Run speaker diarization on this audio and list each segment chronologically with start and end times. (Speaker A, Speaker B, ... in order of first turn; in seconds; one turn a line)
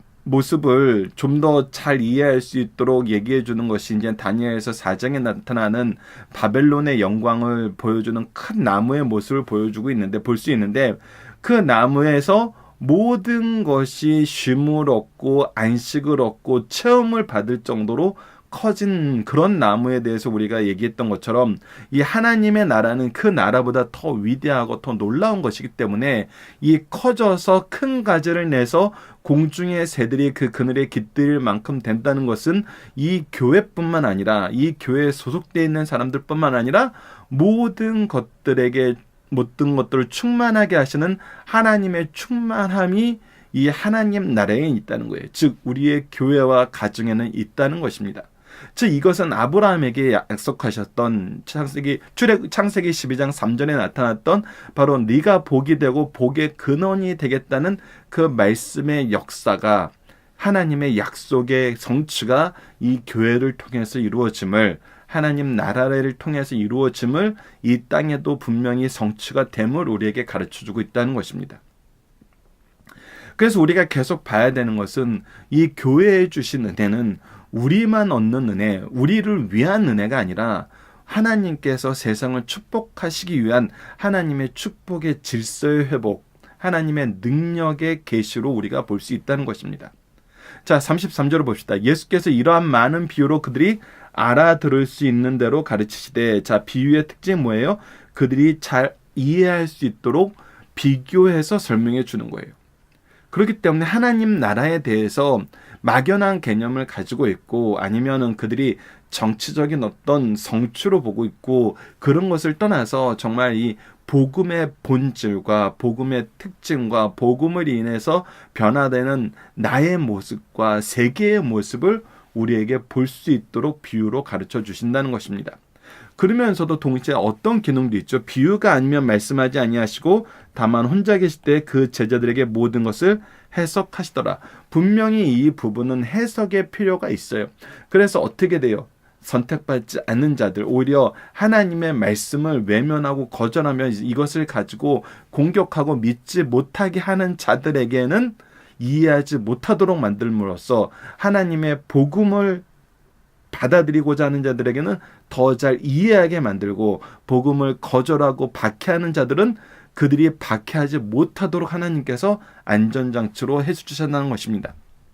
Speaker A: 0.2-71.6
Speaker A: 73.4-89.9
Speaker A: 90.6-102.5
Speaker A: 103.3-125.6
Speaker A: 126.2-152.6
Speaker A: 153.5-164.7